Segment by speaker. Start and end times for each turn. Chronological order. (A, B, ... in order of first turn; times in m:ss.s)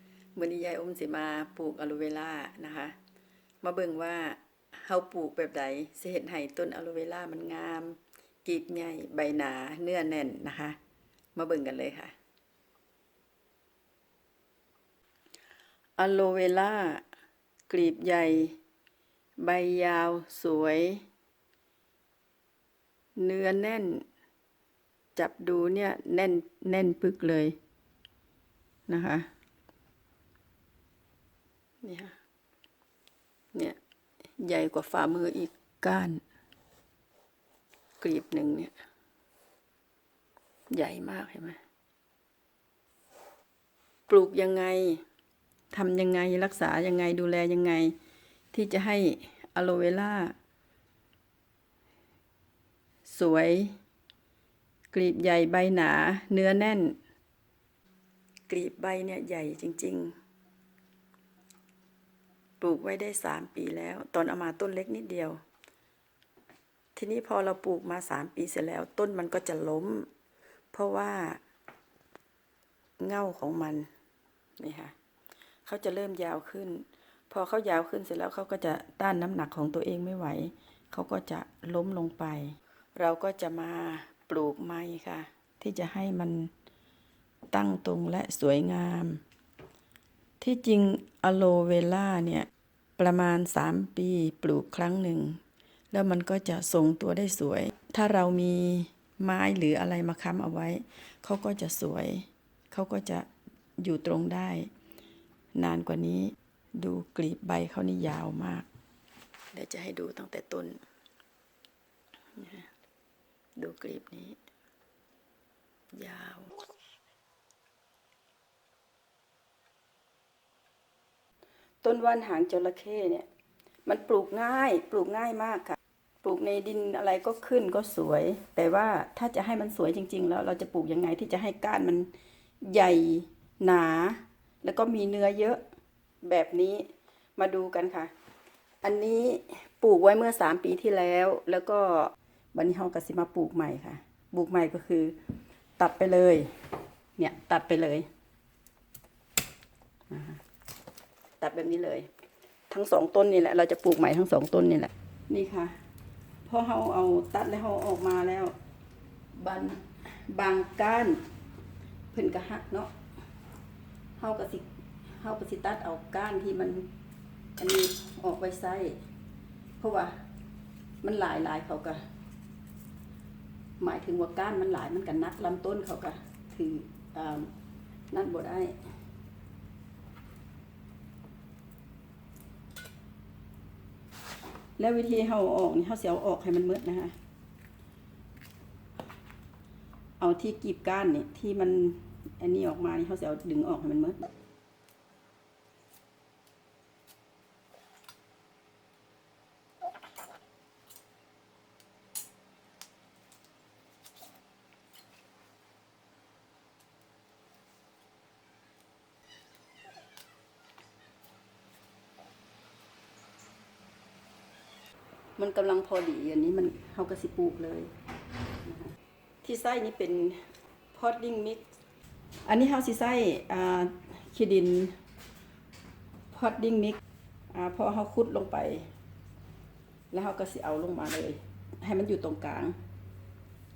0:00.4-0:03.0 A
0:03.6-0:10.8 A
0:11.3-0:12.1 A
0:16.0-0:17.0 A
0:17.7-0:18.6 A
0:19.4-0:21.0 A
0:23.2-0:24.0 A
0:25.2-0:27.6 A
0:28.9-0:29.3 A
0:31.8-0:32.2 A
0:34.4-0:36.2 A
0:38.0-0:38.7 A
0:40.7-0:41.6 A
0:44.1-0:45.0 A
0:45.7-0:48.0 A
0:48.5-0:50.3 A
0:53.0-0:53.8 A
0:54.9-0:57.0 A
0:58.5-1:00.2 A
1:02.6-1:05.4 A
1:06.9-1:10.1 A
1:10.7-1:11.4 A
1:13.0-1:13.9 A
1:14.6-1:14.9 A
1:15.6-1:26.5 A
1:27.5-1:29.2 A
1:30.4-1:35.4 A
1:35.9-1:43.3 A
1:43.8-1:44.7 A
1:45.5-1:48.7 A
1:49.5-1:50.8 A
1:52.3-1:52.7 A
1:53.6-1:54.4 A
1:55.9-1:56.6 A
2:01.8-2:03.2 A
2:03.8-2:12.1 A
2:12.6-2:15.6 A
2:16.2-2:18.1 A
2:18.8-2:25.1 A
2:25.8-2:26.5 A
2:27.2-2:28.1 A
2:30.1-2:30.4 A
2:31.4-2:32.1 A
2:32.7-2:35.8 A
2:36.4-2:38.5 A
2:39.3-2:41.2 A
2:42.1-2:42.9 A
2:44.2-2:44.7 A
2:45.2-2:46.9 A
2:47.6-2:49.0 A
2:49.8-2:50.2 A
2:51.0-2:52.0 A
2:53.8-2:57.5 A
2:58.1-2:58.7 A
3:04.8-3:07.1 A
3:10.2-3:14.3 A
3:35.4-3:37.9 A
3:38.6-3:41.6 A
3:42.4-3:45.0 A
3:46.3-3:47.0 A
3:47.5-3:48.9 A
3:50.1-3:52.7 A